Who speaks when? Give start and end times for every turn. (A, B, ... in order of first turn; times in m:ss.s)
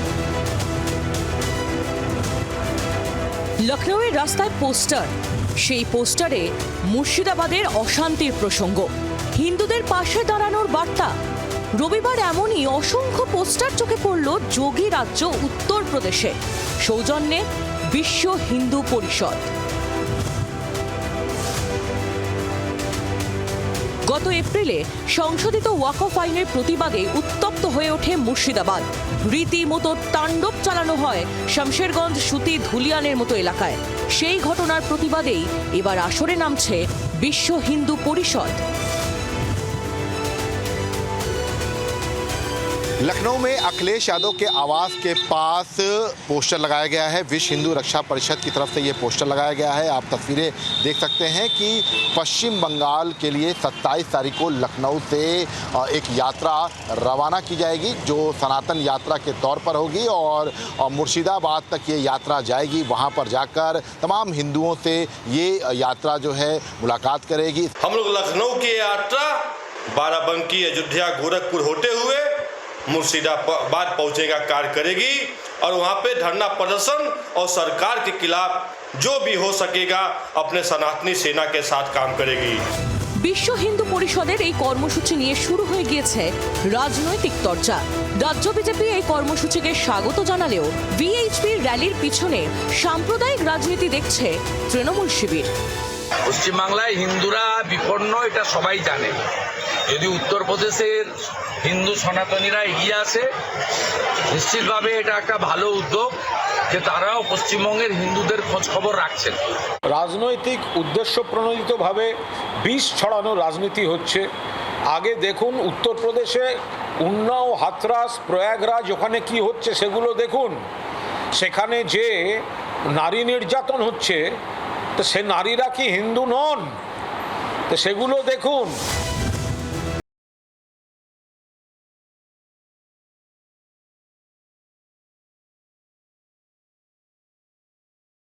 0:03.6-0:11.2 A
0:11.7-0:19.5 A
0:24.1-0:38.6 A
0:43.0-1:07.7 B
1:07.8-1:22.6 C
1:23.2-1:35.5 A
1:36.3-1:43.3 D
1:44.3-1:46.2 D
1:46.7-1:49.6 D
1:49.9-1:54.3 E
1:54.9-2:00.6 E
2:01.3-2:04.4 E
2:05.0-2:06.8 E
2:07.7-2:08.8 E